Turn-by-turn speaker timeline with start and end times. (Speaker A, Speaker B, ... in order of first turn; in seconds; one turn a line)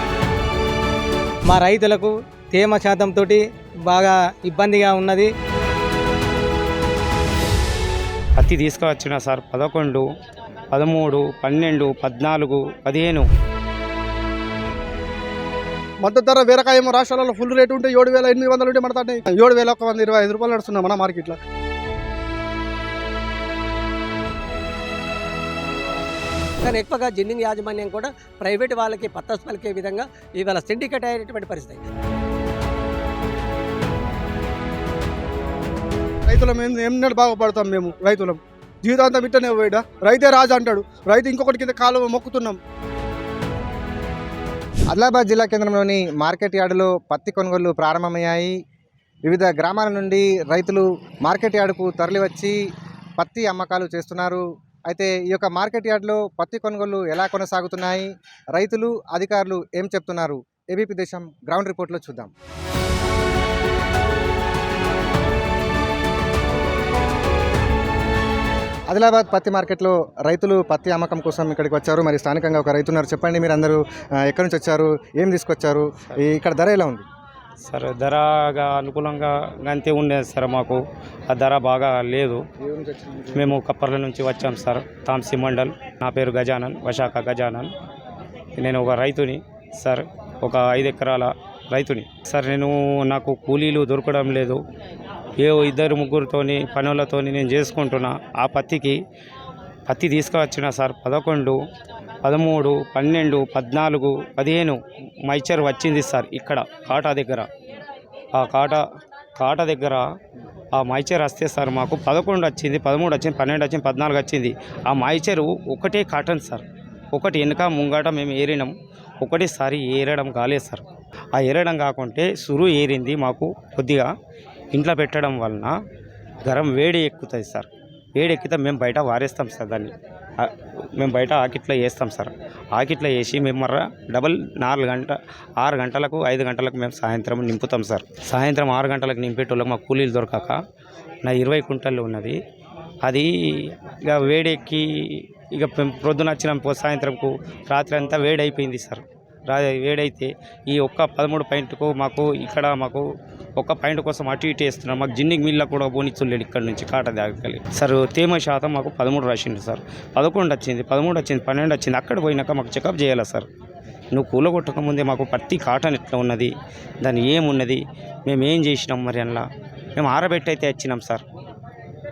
Speaker A: 1.5-5.3
Speaker B: 8.3-10.0
Speaker B: 10.7-13.2
Speaker C: 16.0-21.4
Speaker D: 26.6-31.8
Speaker C: 36.3-42.6
Speaker E: 44.9-48.5
Speaker E: 49.3-52.5
Speaker E: 53.2-62.3
Speaker E: 68.9-77.0
Speaker B: 77.6-82.4
Speaker E: 82.6-83.5
Speaker B: 83.3-87.7
Speaker B: 88.6-94.6
Speaker B: 95.4-99.0
Speaker B: 99.9-101.6
Speaker B: 102.2-107.5
Speaker B: 108.3-108.8
Speaker B: 109.4-110.0
Speaker B: 110.7-120.8
Speaker B: 121.3-124.1
Speaker B: 124.7-125.7
Speaker B: 126.4-140.6
Speaker B: 141.2-142.3
Speaker B: 143.0-153.0
Speaker B: 153.6-163.4
Speaker B: 164.1-169.4
Speaker B: 170.0-171.2